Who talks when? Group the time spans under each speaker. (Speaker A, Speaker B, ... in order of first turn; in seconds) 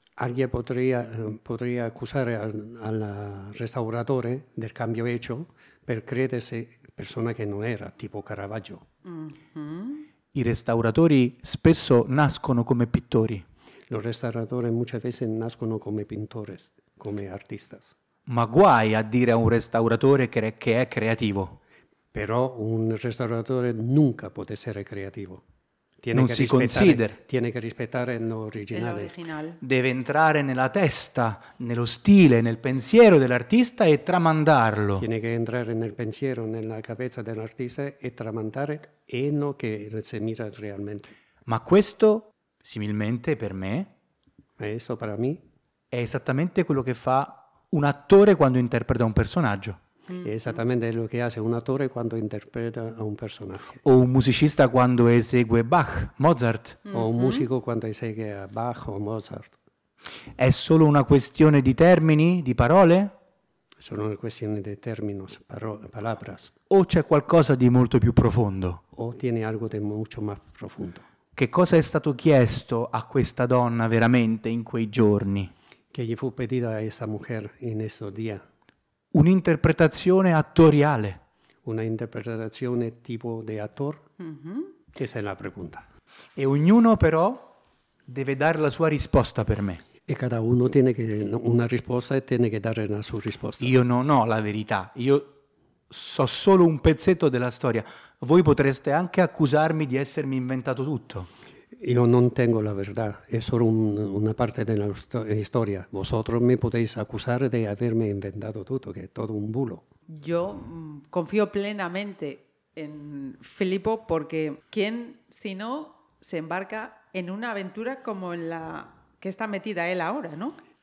Speaker A: 0.2-8.8, 13.9-17.9, 22.1-25.4, 26.0-29.1, 35.0-41.1, 44.6-45.4, 50.2-53.8, 56.9-59.6, 63.8-66.5, 68.9-71.0, 75.9-78.5, 81.6-84.1, 85.0-85.9, 90.1-93.8, 101.8-109.8
Speaker B: 9.1-10.1, 28.7-29.6, 50.1-50.5, 56.9-57.5, 84.2-84.7, 110.1-120.6
Speaker C: 10.3-13.4, 18.3-21.6, 26.1-27.2, 29.6-35.1, 41.5-43.9, 45.9-49.8, 53.8-56.9, 60.4-63.1, 66.7-68.8, 71.4-75.5, 79.1-81.2, 86.4-87.5, 88.1-89.8, 93.6-95.4, 95.9-101.3